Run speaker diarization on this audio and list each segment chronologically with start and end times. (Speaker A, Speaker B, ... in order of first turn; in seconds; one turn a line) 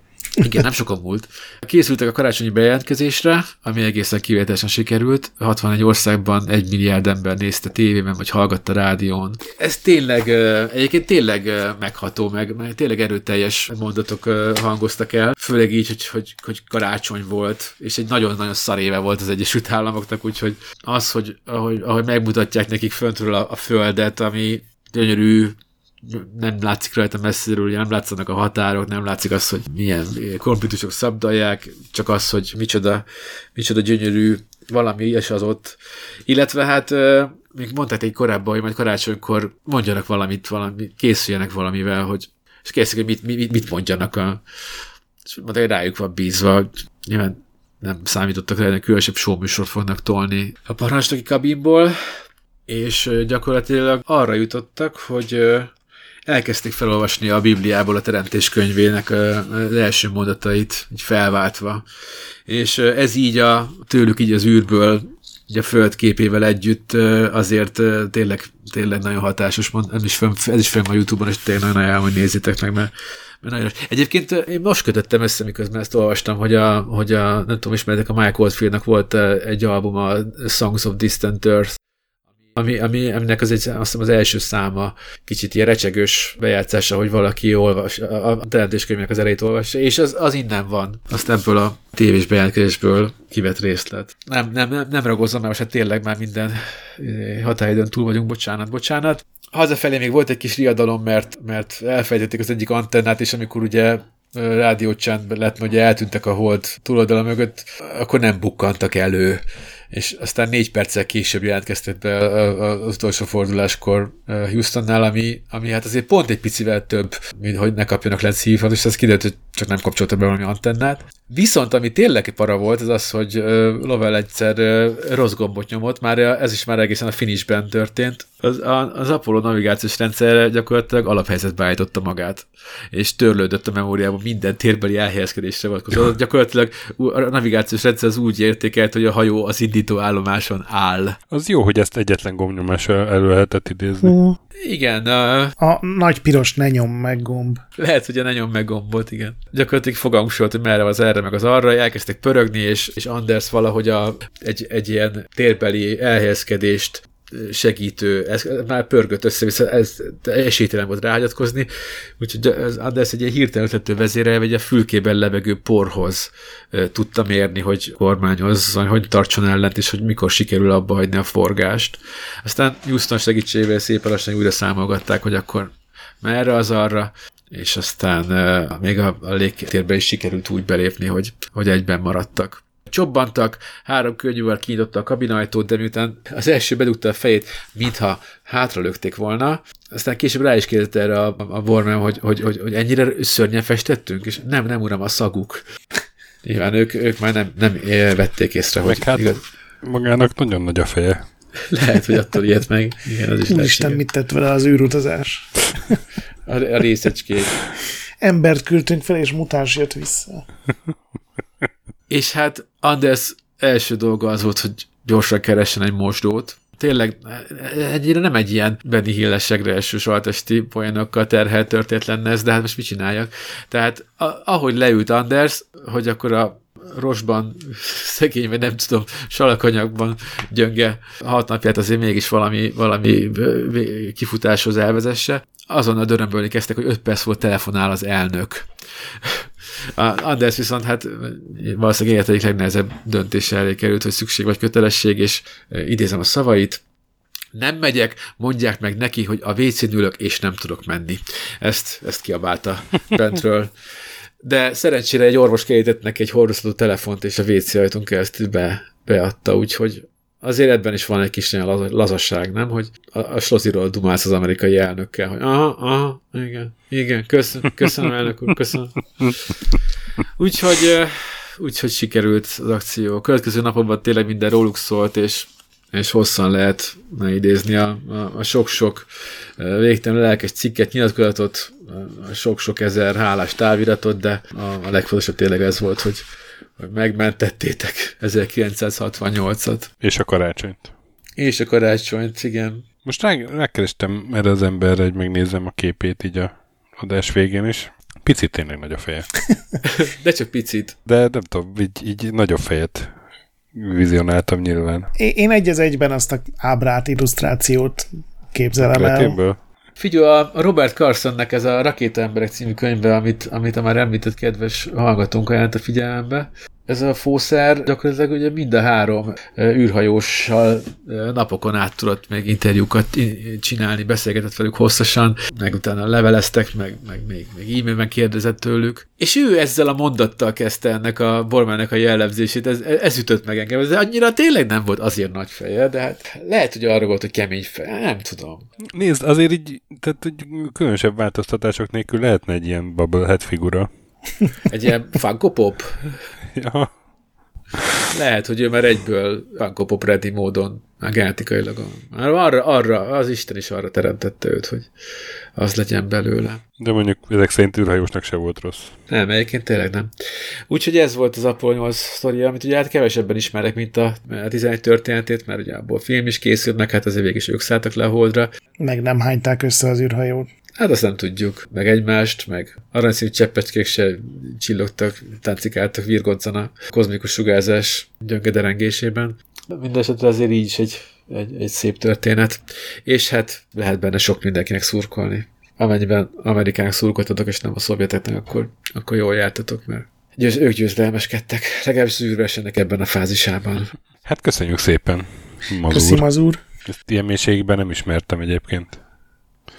Speaker A: 0.4-44.4
Speaker A: 45.2-52.0
Speaker A: 52.7-55.7
Speaker A: 56.3-61.9
Speaker A: 62.5-81.8
Speaker A: 82.5-141.2
Speaker B: 141.3-144.2
Speaker C: 144.0-144.4
Speaker A: 144.6-145.6
Speaker C: 145.6-147.6
Speaker A: 147.8-195.6
Speaker A: 196.4-199.4
Speaker B: 198.8-201.2
Speaker A: 201.6-204.0
Speaker C: 203.5-205.9
Speaker A: 206.5-207.6
Speaker C: 208.2-210.4
Speaker A: 212.1-246.8
Speaker A: 247.5-253.7
Speaker A: 254.4-269.5
Speaker A: 270.4-286.3
Speaker A: 286.8-289.9
Speaker B: 290.0-290.9
Speaker A: 291.4-292.9
Speaker B: 293.1-299.3
Speaker A: 299.8-301.0
Speaker B: 301.1-303.1
Speaker B: 303.7-305.1
Speaker C: 305.2-309.4
Speaker B: 308.8-309.6
Speaker A: 310.0-338.6
Speaker B: 338.9-343.9
Speaker A: 344.7-346.2
Speaker B: 346.6-346.9
Speaker B: 347.8-348.0
Speaker A: 348.1-354.9
Speaker A: 355.6-356.6
Speaker B: 356.8-358.9
Speaker A: 359.1-360.1
Speaker A: 360.7-368.5
Speaker C: 368.8-370.5
Speaker A: 370.8-393.9
Speaker B: 394.2-396.2
Speaker C: 395.9-396.6
Speaker B: 396.9-399.0